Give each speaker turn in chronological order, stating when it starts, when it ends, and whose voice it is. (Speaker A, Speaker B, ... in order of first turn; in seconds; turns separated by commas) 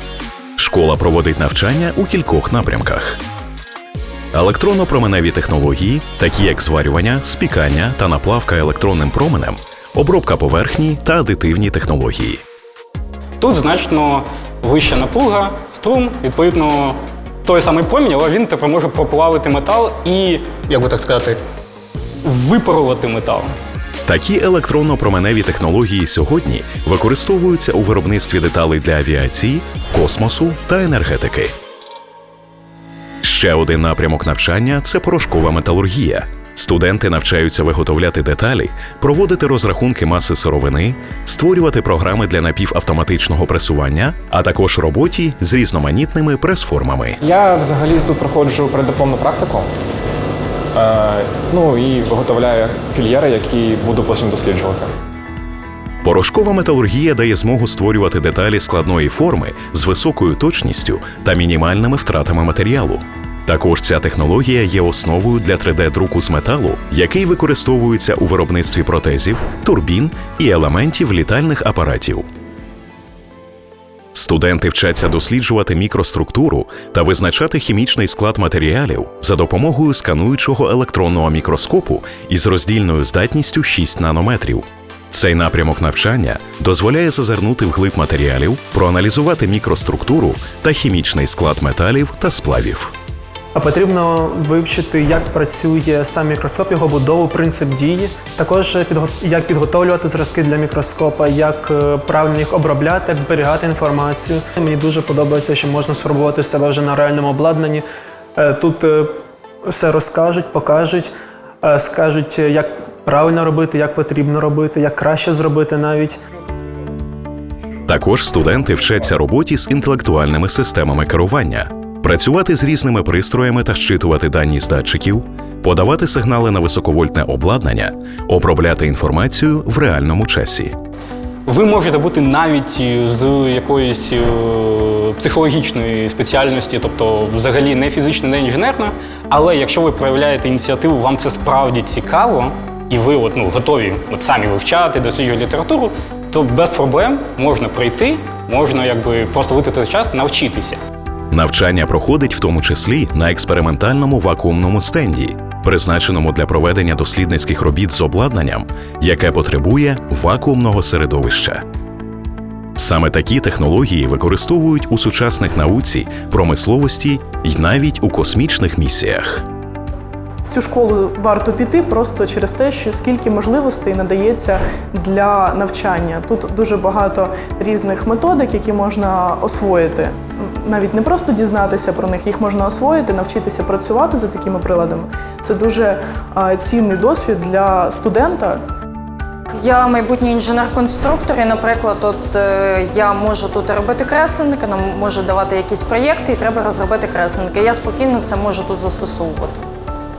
Speaker A: 0.6-3.2, Speaker A: 4.3-12.4, Speaker B: 13.4-21.4, Speaker B: 22.2-23.5, Speaker A: 24.1-31.5, Speaker A: 33.2-47.2, Speaker C: 47.2-49.7, Speaker C: 50.7-54.9, Speaker A: 56.0-72.3, Speaker A: 74.1-92.9, Speaker D: 93.5-107.8, Speaker D: 108.4-111.1, Speaker D: 111.6-116.2, Speaker A: 117.9-130.7, Speaker B: 131.5-150.8, Speaker A: 151.3-161.6, Speaker A: 162.8-169.4, Speaker E: 170.5-188.6, Speaker F: 189.5-199.6